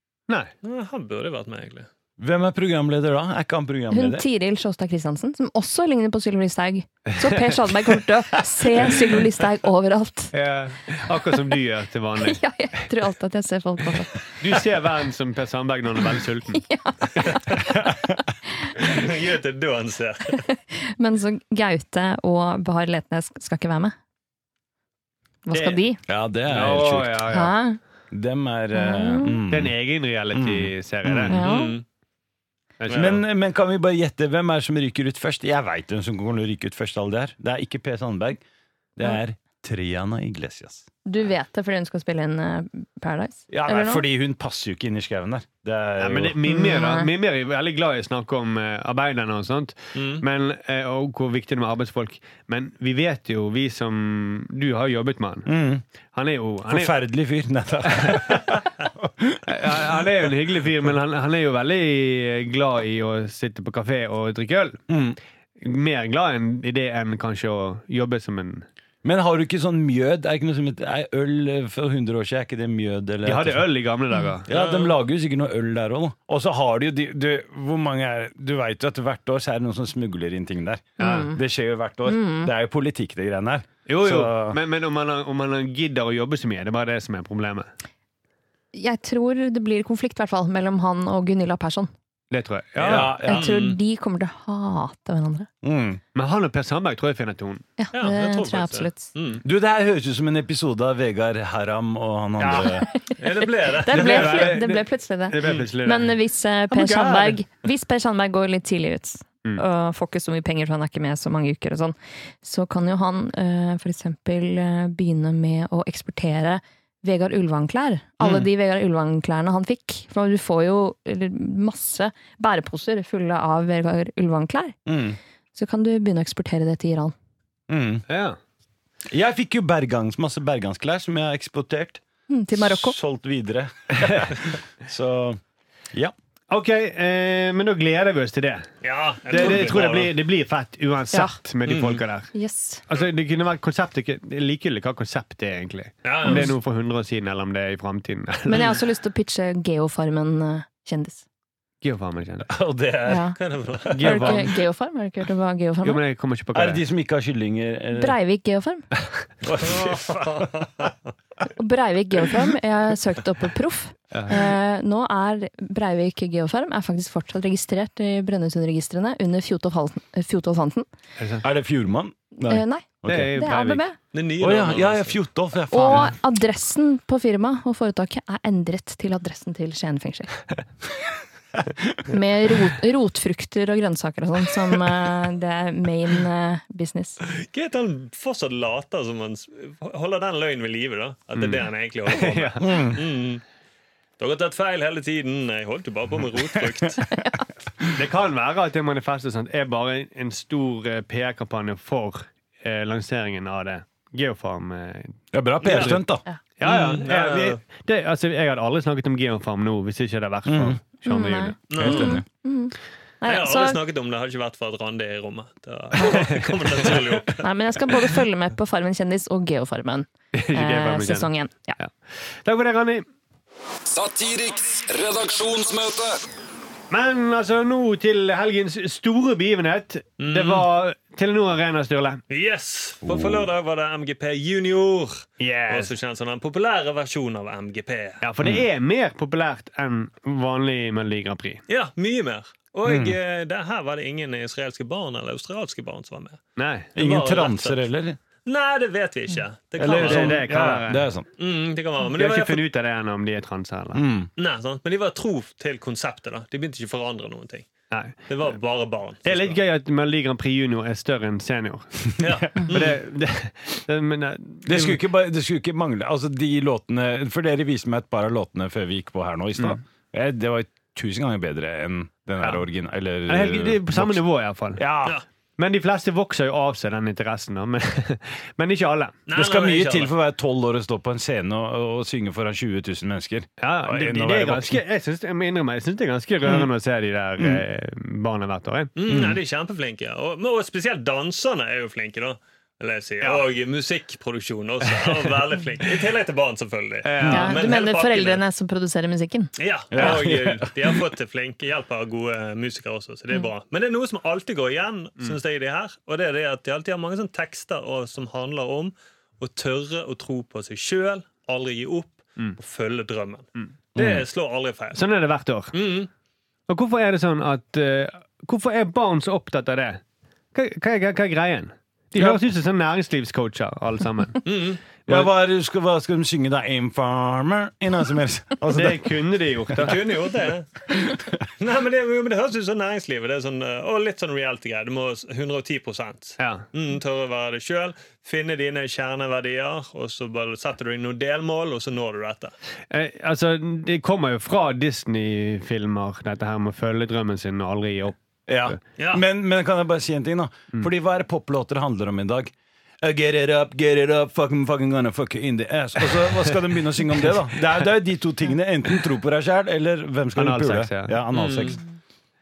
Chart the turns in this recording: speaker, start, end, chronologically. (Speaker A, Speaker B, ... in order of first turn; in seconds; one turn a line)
Speaker A: 0.3-0.5
Speaker B: 0.6-1.9
Speaker C: 2.2-4.3
Speaker D: 3.9-10.3
Speaker A: 7.2-7.5
Speaker A: 10.3-12.4
Speaker D: 12.2-14.3
Speaker A: 14.4-16.6
Speaker D: 16.6-17.6
Speaker C: 17.9-18.2
Speaker B: 18.8-20.4
Speaker D: 20.7-23.9
Speaker D: 25.5-26.0
Speaker A: 25.5-25.8
Speaker C: 26.1-27.3
Speaker A: 26.5-27.6
Speaker D: 27.3-27.8
Speaker C: 28.1-29.7
Speaker D: 28.7-29.4
Speaker A: 29.5-31.4
Speaker C: 30.3-31.4
Speaker D: 31.3-31.8
Speaker B: 31.4-31.8
Speaker A: 32.8-33.2
Speaker B: 32.9-33.2
Speaker C: 32.9-38.4
Speaker C: 39.0-40.9
Speaker D: 41.1-44.0
Speaker C: 43.5-46.4
Speaker A: 46.0-55.5
Speaker D: 46.5-47.1
Speaker B: 50.0-50.2
Speaker C: 55.5-55.8
Speaker A: 56.1-56.9
Speaker C: 56.7-60.0
Speaker A: 59.5-64.8
Speaker C: 64.9-65.2
Speaker A: 65.6-68.7
Speaker C: 69.0-73.7
Speaker A: 73.2-74.5
Speaker C: 74.5-84.6
Speaker B: 74.5-75.0
Speaker D: 81.0-81.4
Speaker A: 81.0-81.3
Speaker D: 82.1-82.5
Speaker A: 83.9-87.7
Speaker D: 88.7-91.9
Speaker A: 92.3-93.2
Speaker C: 92.8-93.6
Speaker B: 93.0-93.8
Speaker D: 93.2-95.5
Speaker C: 95.6-96.0
Speaker A: 96.2-97.7
Speaker D: 97.8-99.1
Speaker B: 97.9-99.4
Speaker C: 99.4-102.9
Speaker A: 102.4-102.7
Speaker D: 102.6-124.8
Speaker B: 103.2-104.6
Speaker A: 103.9-106.2
Speaker A: 106.7-107.4
Speaker C: 118.2-118.5
Speaker C: 124.9-125.2
Speaker D: 125.5-127.2
Speaker C: 127.7-128.0
Speaker A: 128.1-128.4
Speaker C: 129.1-132.0
Speaker D: 132.3-133.0
Speaker C: 132.5-135.4
Speaker A: 134.0-134.3
Speaker A: 136.5-138.7
Speaker B: 138.8-140.1
Speaker A: 139.3-142.3
Speaker B: 141.7-142.0
Speaker D: 142.3-142.8
Speaker A: 142.9-148.7
Speaker B: 146.0-146.5
Speaker D: 148.5-151.2
Speaker A: 151.8-152.5
Speaker C: 152.5-153.3
Speaker B: 153.0-154.5
Speaker D: 153.1-153.4
Speaker A: 153.9-154.5
Speaker D: 154.0-156.0
Speaker A: 155.8-156.8
Speaker C: 156.5-158.2
Speaker D: 158.0-158.9
Speaker C: 159.4-160.5
Speaker B: 159.6-160.9
Speaker D: 161.5-170.9
Speaker A: 164.1-164.4
Speaker A: 171.2-171.5
Speaker C: 171.4-173.4
Speaker D: 172.4-174.0
Speaker A: 173.1-173.8
Speaker B: 174.1-175.2
Speaker C: 174.4-176.1
Speaker D: 175.7-180.5
Speaker D: 182.0-187.2
Speaker B: 187.3-193.4
Speaker A: 192.1-192.8
Speaker C: 192.6-193.0
Speaker B: 194.2-197.1
Speaker A: 197.9-206.0
Speaker C: 205.3-206.2
Speaker B: 205.6-206.0
Speaker A: 206.6-211.6
Speaker B: 206.7-207.6
Speaker C: 210.5-210.8
Speaker D: 211.1-213.8
Speaker B: 211.7-212.2
Speaker C: 211.8-212.2
Speaker B: 213.2-217.5
Speaker A: 216.0-217.0
Speaker D: 217.4-221.8
Speaker A: 220.3-223.1
Speaker E: 223.9-226.2
Speaker A: 226.9-232.2
Speaker B: 230.2-230.7
Speaker B: 232.3-238.2
Speaker C: 233.0-233.5
Speaker A: 235.4-235.9
Speaker A: 238.2-241.6
Speaker B: 241.7-246.4
Speaker C: 242.9-243.2
Speaker A: 246.6-246.9
Speaker B: 246.9-247.8
Speaker C: 247.0-248.2
Speaker B: 248.4-250.4
Speaker C: 249.8-251.3
Speaker A: 249.9-251.1
Speaker B: 251.4-252.7
Speaker A: 252.1-254.0
Speaker C: 253.9-254.3
Speaker B: 254.4-257.7
Speaker A: 257.9-258.3
Speaker B: 258.3-259.6
Speaker A: 259.2-265.0
Speaker B: 262.2-263.0
Speaker C: 264.7-274.2
Speaker A: 273.3-274.8
Speaker C: 274.8-275.2
Speaker A: 275.6-279.2
Speaker B: 279.3-280.1
Speaker C: 279.4-284.8
Speaker A: 283.6-288.9
Speaker C: 287.4-287.6
Speaker B: 289.0-298.4
Speaker C: 289.1-289.4
Speaker A: 294.9-295.4
Speaker A: 297.0-297.6
Speaker C: 297.2-297.5
Speaker D: 297.3-299.5
Speaker B: 299.6-315.1
Speaker C: 299.9-301.0
Speaker C: 314.0-314.2
Speaker A: 314.9-315.8
Speaker B: 315.7-316.1
Speaker A: 316.7-320.0
Speaker A: 320.5-324.5
Speaker B: 324.4-324.8
Speaker C: 325.1-329.2
Speaker A: 328.7-330.0
Speaker B: 329.8-342.5
Speaker A: 336.4-336.6
Speaker A: 342.9-348.8
Speaker C: 348.5-361.8
Speaker B: 349.0-349.2
Speaker A: 360.4-361.2
Speaker B: 361.3-361.8